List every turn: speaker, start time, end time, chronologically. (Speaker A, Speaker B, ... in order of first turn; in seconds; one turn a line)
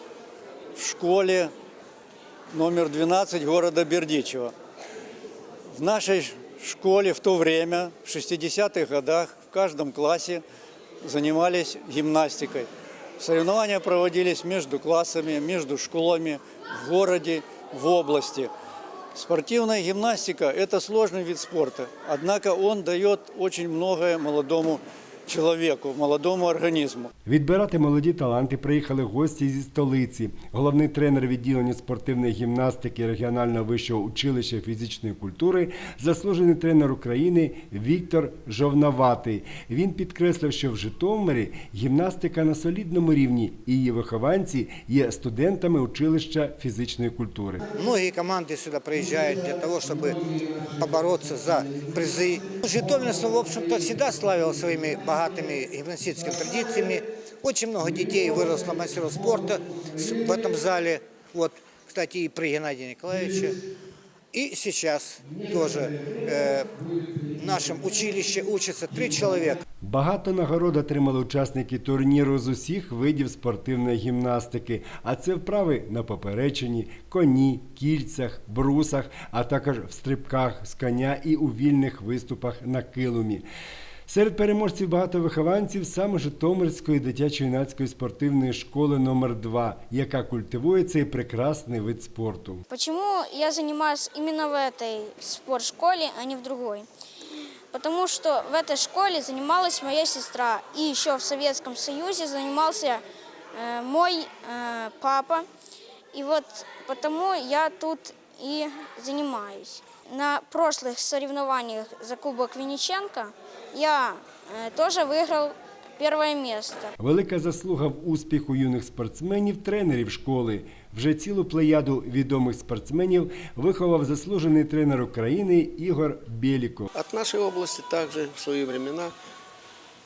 Speaker A: 0.8-1.5
Speaker A: 2.5-4.5
Speaker A: 5.7-10.4
Speaker A: 11.0-12.7
Speaker A: 13.2-18.5
Speaker A: 19.1-27.1
Speaker B: 27.3-47.6
Speaker C: 47.7-63.6
Speaker C: 64.3-69.6
Speaker B: 69.8-83.5
Speaker B: 84.1-92.6
Speaker D: 92.7-96.9
Speaker D: 97.7-105.5
Speaker D: 106.1-116.9
Speaker B: 117.0-126.9
Speaker E: 127.0-129.1